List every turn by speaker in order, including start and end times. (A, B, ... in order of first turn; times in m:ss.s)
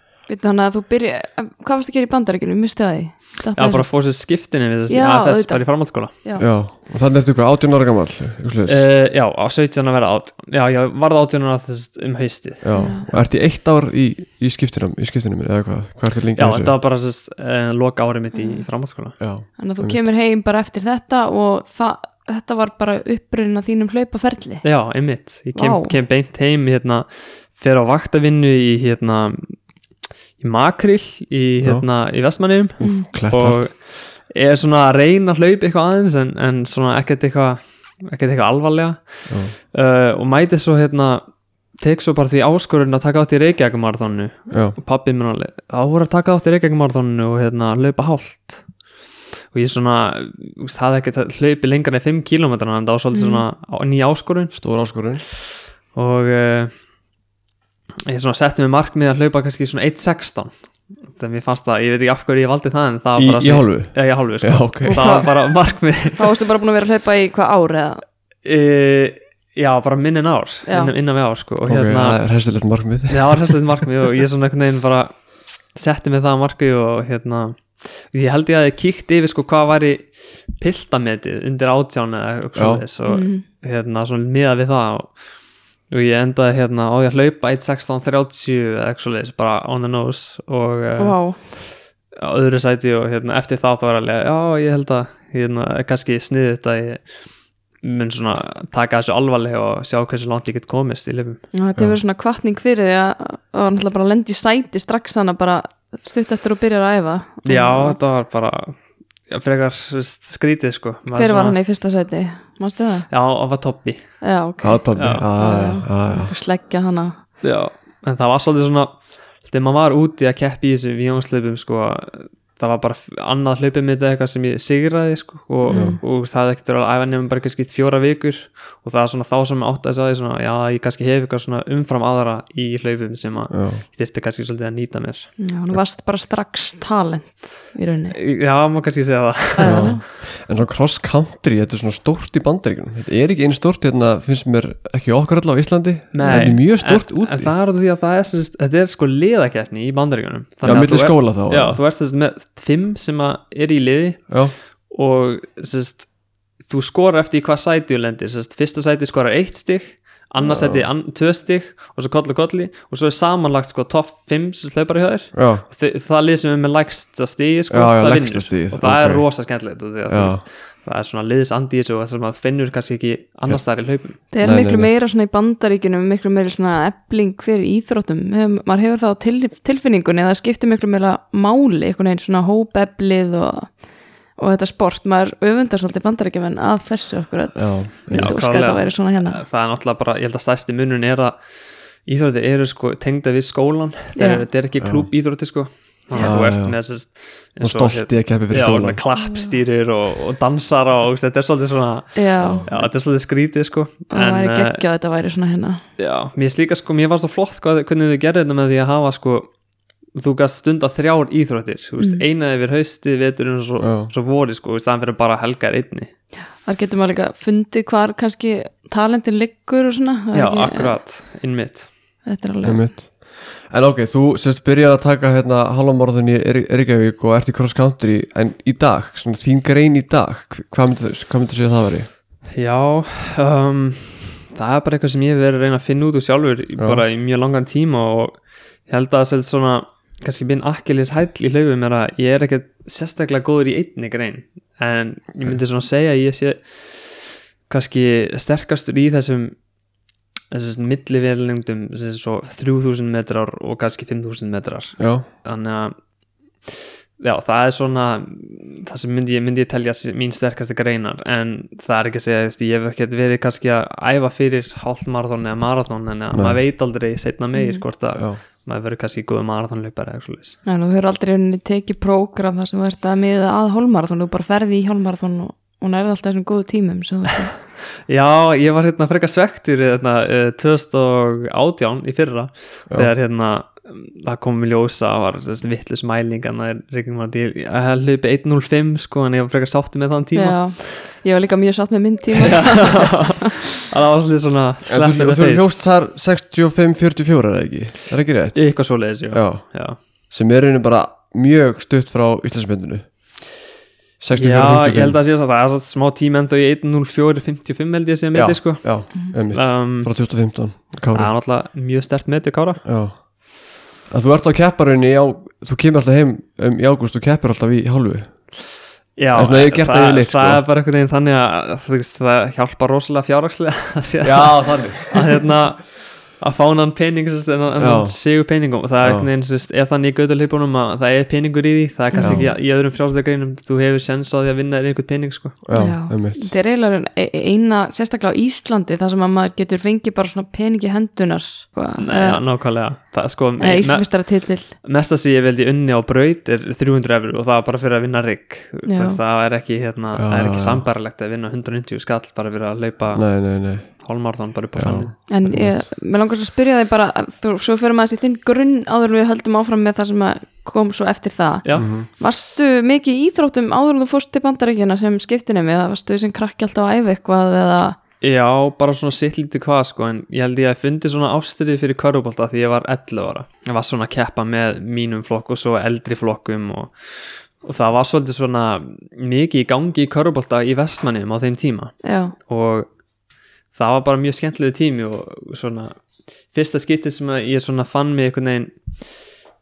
0:00.3-0:03.9 A
0:03.6-0:06.1 B
0:04.9-0:06.4 A
0:06.4-0:08.8 C
0:08.6-0:12.8 B
0:12.6-0:16.7 C
0:12.7-0:13.1 A
0:16.3-0:19.2 B
0:18.3-0:18.6 A
0:19.2-0:20.0 C
0:19.6-0:24.6 A
0:24.6-0:29.6 B
0:25.6-0:25.9 A
0:30.4-0:48.7 B
0:31.6-0:31.9 C
0:32.8-0:33.7 C
0:32.8-0:33.1 A
0:39.3-0:39.6 C
0:44.5-0:44.8 C
0:49.5-0:54.6 B
0:53.1-0:53.4 A
0:54.5-0:55.2 C
0:55.9-0:56.7 B
0:58.1-1:00.5 B
1:01.1-1:06.4 B
1:03.2-1:05.3 C
1:04.8-1:05.5 A
1:06.1-1:08.0 A
1:08.4-1:12.2 B
1:10.7-1:10.9 A
1:11.7-1:13.6 C
1:13.1-1:25.2 B
1:22.6-1:22.8 C
1:23.1-1:23.4 A
1:25.9-1:37.2 B
1:31.0-1:31.4 A
1:37.8-1:41.4 B
1:41.5-1:48.0 A
1:47.4-1:51.6 B
1:51.1-1:53.1 A
1:53.1-1:54.2 B
1:54.2-1:57.2 A
1:54.6-1:56.3 C
1:54.9-1:55.3 B
1:57.4-2:15.4 B
2:05.7-2:06.0 A
2:05.7-2:06.0 C
2:13.5-2:13.8 C
2:15.4-2:18.2 A
2:18.1-2:20.0 B
2:19.6-2:20.0 A
2:19.6-2:27.5 C
2:26.1-2:36.1 B
2:26.2-2:26.5 A
2:30.6-2:31.8 C
2:34.3-2:34.5 C
2:36.6-2:54.2 B
2:40.4-2:40.9 C
2:45.3-2:45.6 C
2:47.7-2:49.3 C
2:50.1-2:50.4 C
2:54.2-2:54.9 C
2:54.3-3:09.4 A
3:07.5-3:08.4 C
3:08.1-3:24.8 B
3:14.2-3:14.4 A
3:14.8-3:15.1 C
3:16.1-3:16.4 A
3:16.2-3:17.0 C
3:17.6-3:19.0 C
3:19.2-3:19.5 A
3:22.2-3:22.9 A
3:22.4-3:22.7 C
3:24.1-3:25.8 A
3:26.0-3:29.5 B
3:30.1-3:36.1 B
3:33.8-3:34.1 C
3:36.6-3:41.0 A
3:40.3-3:41.9 B
3:42.2-3:42.9 A
3:42.6-3:52.1 C
3:52.5-4:09.6 B
3:56.8-3:57.0 C
4:10.5-4:15.9 B
4:15.0-4:15.2 C
4:16.6-4:30.6 B
4:26.3-4:26.6 C
4:27.6-4:27.8 A
4:28.1-4:28.4 C
4:30.7-4:37.5 A
4:38.1-4:50.9 B
4:50.3-4:53.4 A
4:52.4-4:55.8 B
4:54.8-5:03.3 C
4:58.6-5:00.0 B
5:04.2-5:05.2 C
5:04.3-5:10.1 B
5:08.3-5:11.3 C
5:11.1-5:12.8 B
5:12.8-5:13.2 C
5:14.1-5:18.6 C
5:19.2-5:35.6 B
5:19.3-5:20.6 C
5:24.2-5:25.4 C
5:27.8-5:28.2 C
5:29.0-5:29.3 C
5:32.1-5:32.5 A
5:32.2-5:32.5 C
5:35.6-5:36.5 C
5:35.7-5:42.4 A
5:42.0-5:55.2 B
5:43.6-5:44.7 A
5:48.8-5:49.2 A
5:50.1-5:50.8 C
5:53.1-5:54.2 C
5:54.7-5:55.9 C
5:55.3-6:08.0 A
6:01.6-6:01.9 B
6:01.8-6:02.1 C
6:08.2-6:22.9 B
6:22.0-6:22.3 A
6:23.7-6:29.2 B